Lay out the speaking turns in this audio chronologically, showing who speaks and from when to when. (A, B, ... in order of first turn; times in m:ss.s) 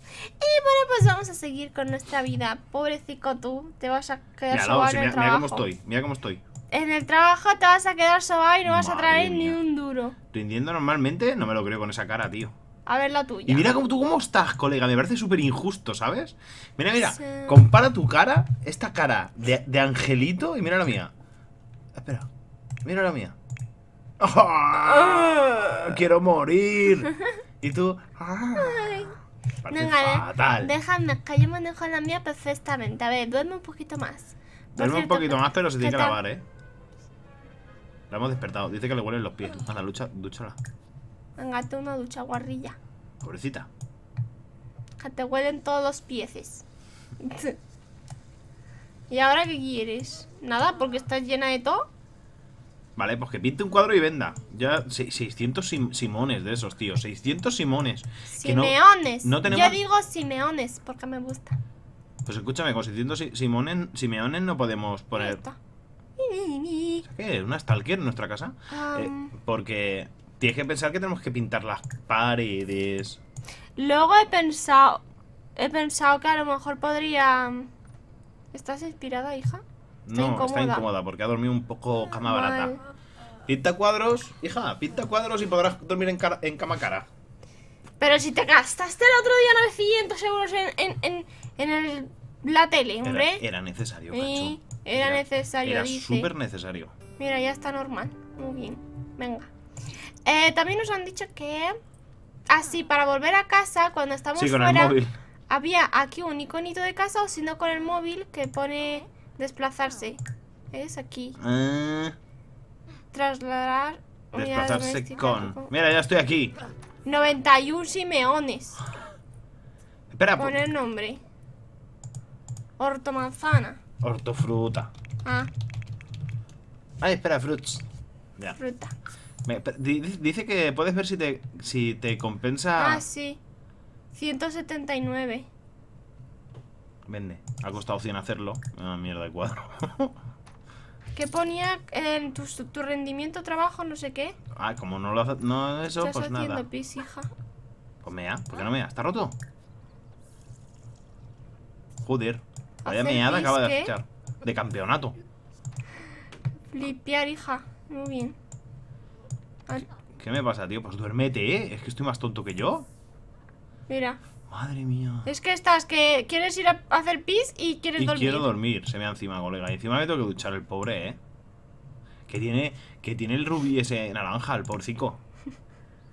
0:00.4-0:05.7 A
0:04.5-0:06.4 B
0:06.7-0:10.2 A
0:08.6-0:09.6 B
0:10.3-0:12.5 B
0:12.9-0:13.7 A
0:13.5-0:21.1 B
0:17.0-0:17.6 A
0:21.9-0:22.3 B
0:22.8-0:23.4 B
0:24.2-0:30.7 B
0:24.8-0:25.8 A
0:28.5-0:36.2 A
0:34.8-0:36.4 B
0:38.1-0:40.6 B
0:41.4-0:42.8 A
0:43.2-0:43.7 B
0:45.0-0:46.6 A
0:47.2-0:47.6 A
0:49.1-0:51.9 A
0:53.0-0:59.8 B
0:58.3-1:01.6 A
1:02.2-1:05.4 B
1:05.2-1:05.6 A
1:06.2-1:07.0 A
1:07.0-1:13.2 B
1:08.7-1:09.3 A
1:13.8-1:15.0 A
1:15.6-1:17.7 A
1:18.5-1:19.6 A
1:20.0-1:22.8 B
1:20.1-1:20.8 A
1:22.2-1:22.8 A
1:23.4-1:27.1 B
1:28.0-1:33.4 A
1:33.0-1:37.0 B
1:34.1-1:36.3 A
1:37.2-1:39.5 A
1:40.2-1:41.8 A
1:42.5-1:45.0 A
1:44.4-1:45.1 B
1:45.5-1:50.2 A
1:50.7-1:51.4 A
1:51.4-1:52.2 B
1:53.1-1:55.7 A
1:54.3-1:56.6 B
1:57.0-1:58.8 A
2:00.1-2:00.6 B
2:00.4-2:01.2 A
2:02.8-2:03.8 A
2:04.0-2:04.9 B
2:05.2-2:05.5 A
2:07.0-2:07.8 B
2:08.6-2:08.9 A
2:09.4-2:13.0 B
2:12.8-2:13.4 A
2:14.1-2:15.5 A
2:17.0-2:20.2 B
2:21.2-2:24.4 A
2:24.5-2:26.6 B
2:26.0-2:27.3 A
2:28.0-2:29.4 B
2:32.0-2:35.2 B
2:32.8-2:33.9 A
2:36.7-2:38.4 A
2:40.1-2:42.9 B
2:43.9-2:44.2 A
2:44.5-2:45.3 B
2:45.2-2:48.5 A
2:48.0-2:51.2 B
2:52.3-2:55.2 B